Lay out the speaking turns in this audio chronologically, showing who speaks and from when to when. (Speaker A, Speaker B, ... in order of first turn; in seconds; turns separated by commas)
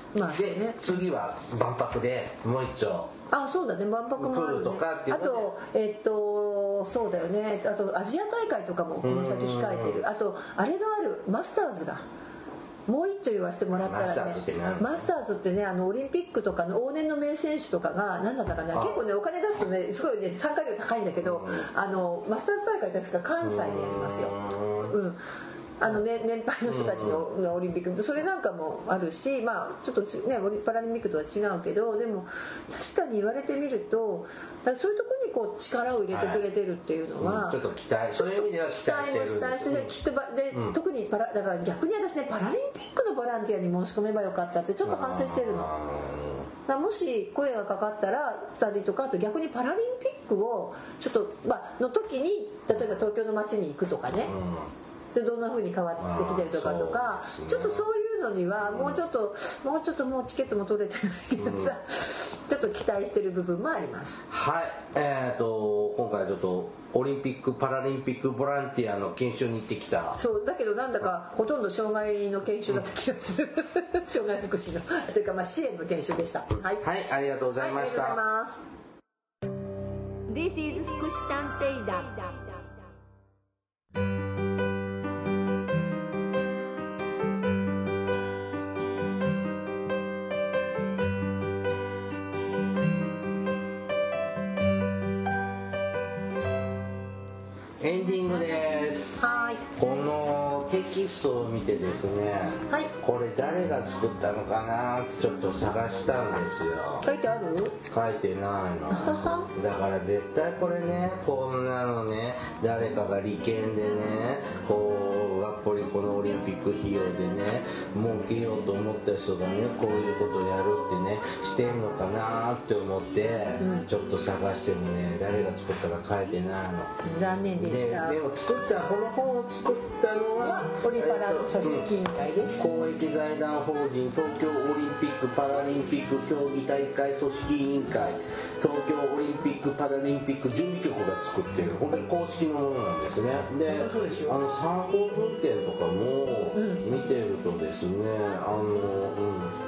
Speaker A: 0.1-1.0, Speaker B: 0.3-3.1, Speaker A: 3.3-12.0, Speaker B: 4.2-5.5, Speaker B: 9.0-10.0, Speaker A: 12.9-25.2, Speaker B: 13.8-15.1, Speaker B: 18.7-19.0, Speaker B: 21.2-21.7, Speaker B: 23.4-24.9, Speaker A: 25.8-37.6, Speaker B: 26.7-27.2, Speaker B: 36.1-36.4, Speaker B: 37.2-39.9, Speaker A: 38.1-45.7, Speaker B: 40.5-40.8, Speaker B: 44.8-46.5, Speaker A: 46.7-54.3, Speaker B: 54.2-54.7, Speaker A: 55.1-64.2, Speaker B: 56.0-57.8, Speaker B: 58.6-59.0, Speaker B: 61.4-61.7, Speaker B: 64.3-70.2, Speaker A: 70.2-76.8, Speaker B: 76.8-78.2, Speaker A: 77.6-78.6, Speaker C: 80.3-82.6, Speaker B: 97.8-99.2, Speaker A: 99.2-99.7, Speaker B: 99.8-107.0, Speaker A: 107.0-107.8, Speaker B: 107.9-127.0, Speaker A: 108.9-109.5, Speaker A: 123.6-123.9, Speaker A: 127.0-128.2, Speaker B: 127.6-131.9, Speaker A: 130.4-132.9, Speaker B: 132.6-149.6, Speaker A: 143.7-144.4, Speaker A: 146.5-146.8